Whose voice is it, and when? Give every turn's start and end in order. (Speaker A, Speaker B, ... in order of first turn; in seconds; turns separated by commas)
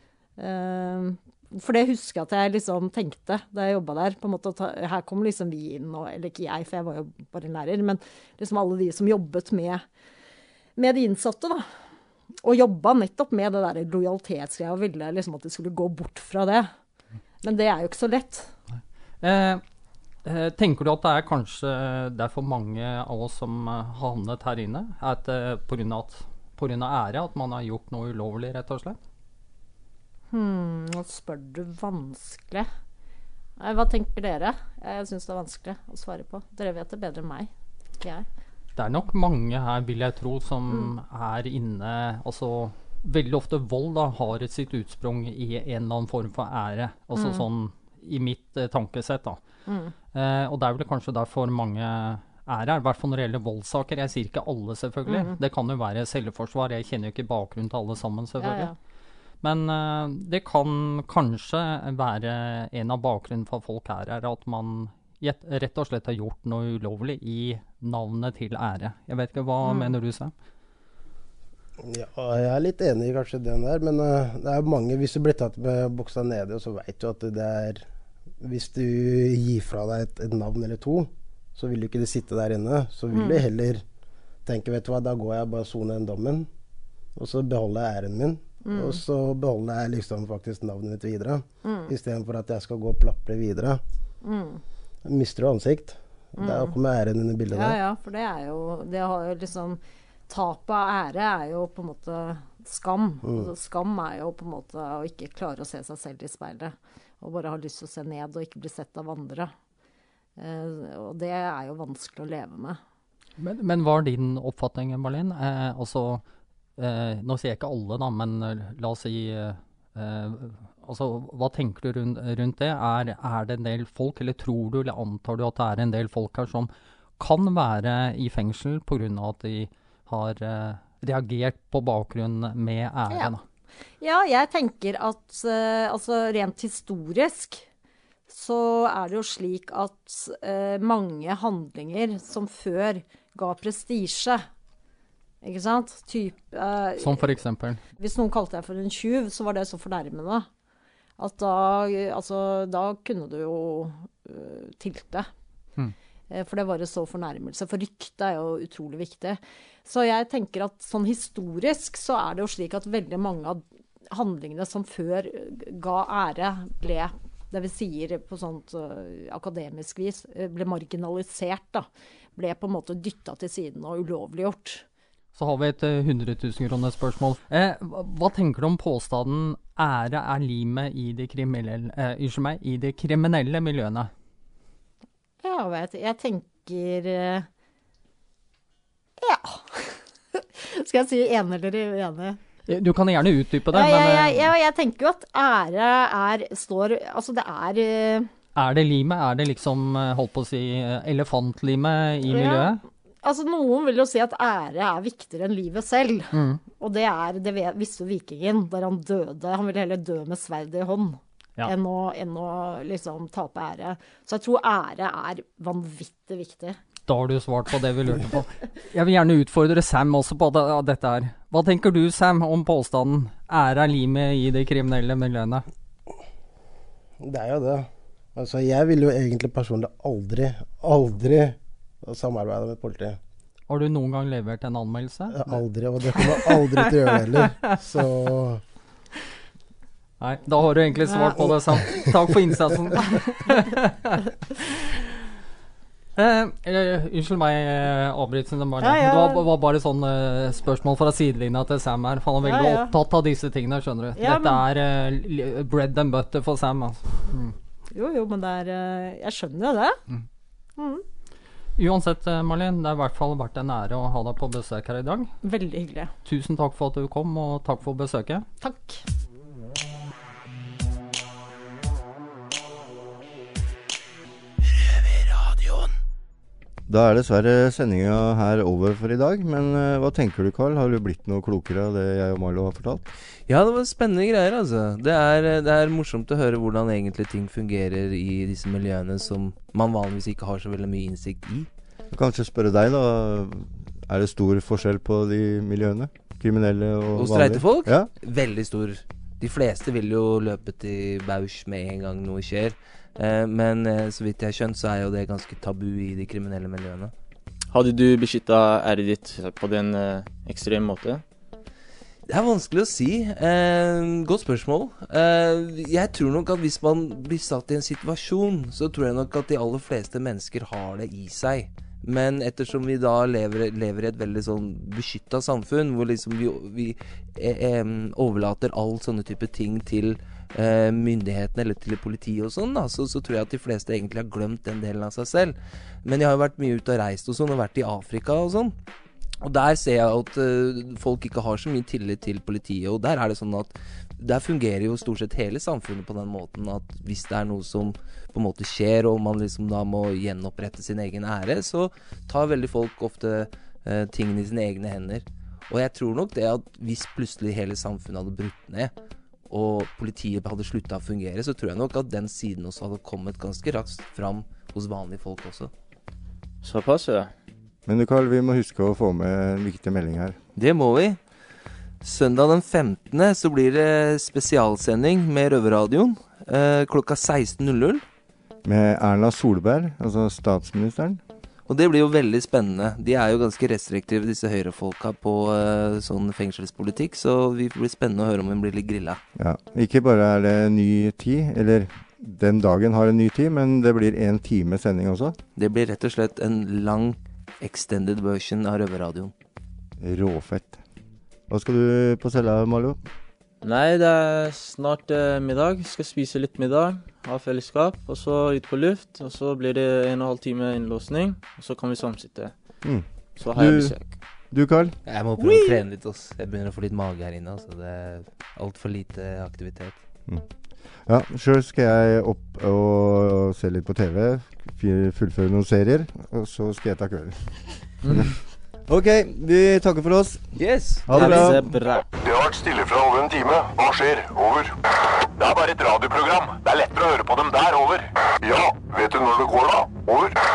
Speaker A: 0.4-9.8, Speaker A: 10.8-11.6, Speaker A: 12.4-16.7, Speaker A: 17.4-18.5, Speaker B: 19.2-19.6, Speaker B: 20.2-29.0, Speaker A: 30.3-32.7, Speaker A: 33.6-37.5, Speaker B: 38.8-49.4, Speaker A: 47.1-47.4, Speaker A: 49.7-49.9, Speaker B: 50.1-58.7, Speaker A: 55.0-55.4, Speaker A: 58.4-58.7, Speaker B: 59.4-70.3, Speaker A: 69.6-69.9, Speaker C: 71.8-77.8, Speaker C: 78.4-83.8, Speaker A: 83.1-83.4, Speaker C: 84.4-86.5, Speaker C: 87.2-93.8, Speaker A: 88.6-89.0, Speaker A: 91.6-91.9, Speaker A: 94.2-94.6, Speaker C: 95.0-97.8, Speaker A: 96.4-96.8, Speaker A: 97.5-109.5, Speaker C: 103.2-103.5, Speaker A: 110.4-112.8, Speaker B: 113.4-116.2, Speaker B: 116.8-133.4, Speaker A: 134.0-137.7, Speaker A: 138.3-144.4, Speaker A: 145.4-147.2, Speaker B: 147.0-147.8, Speaker A: 148.0-150.5, Speaker A: 151.2-155.3, Speaker A: 156.3-174.8, Speaker B: 175.3-184.1, Speaker A: 185.4-187.5, Speaker A: 189.2-192.4, Speaker B: 192.7-194.5, Speaker A: 193.7-198.3, Speaker B: 198.6-202.8, Speaker A: 202.3-202.7, Speaker A: 203.2-216.8, Speaker B: 206.3-206.6, Speaker B: 217.1-225.6, Speaker C: 227.2-233.2, Speaker B: 233.7-235.5, Speaker C: 235.3-238.6, Speaker B: 236.1-237.8, Speaker B: 240.2-244.2, Speaker A: 241.1-241.4, Speaker B: 246.2-257.6, Speaker A: 248.8-249.4, Speaker A: 252.4-252.9, Speaker A: 254.2-254.6, Speaker A: 257.9-260.0, Speaker A: 260.8-261.0, Speaker B: 261.8-265.3, Speaker A: 265.4-266.1, Speaker B: 266.2-268.4, Speaker A: 268.6-269.0, Speaker D: 276.9-283.0, Speaker E: 283.5-291.7, Speaker D: 292.1-298.1, Speaker E: 297.1-307.1, Speaker F: 307.7-311.2, Speaker E: 312.3-338.8, Speaker E: 339.4-358.9, Speaker E: 359.5-365.7, Speaker F: 366.6-367.3, Speaker D: 367.9-370.4, Speaker E: 370.6-371.2, Speaker E: 372.0-378.0, Speaker D: 378.6-381.2, Speaker E: 381.7-389.2, Speaker D: 389.4-395.4, Speaker E: 395.6-399.3, Speaker D: 400.0-400.8, Speaker D: 401.5-403.0, Speaker F: 403.6-412.7, Speaker D: 412.8-415.0, Speaker F: 413.4-414.1, Speaker E: 415.1-419.9, Speaker D: 420.3-430.5, Speaker E: 430.6-431.5, Speaker D: 431.1-431.6, Speaker F: 431.1-432.1, Speaker G: 432.2-434.7, Speaker G: 435.4-440.4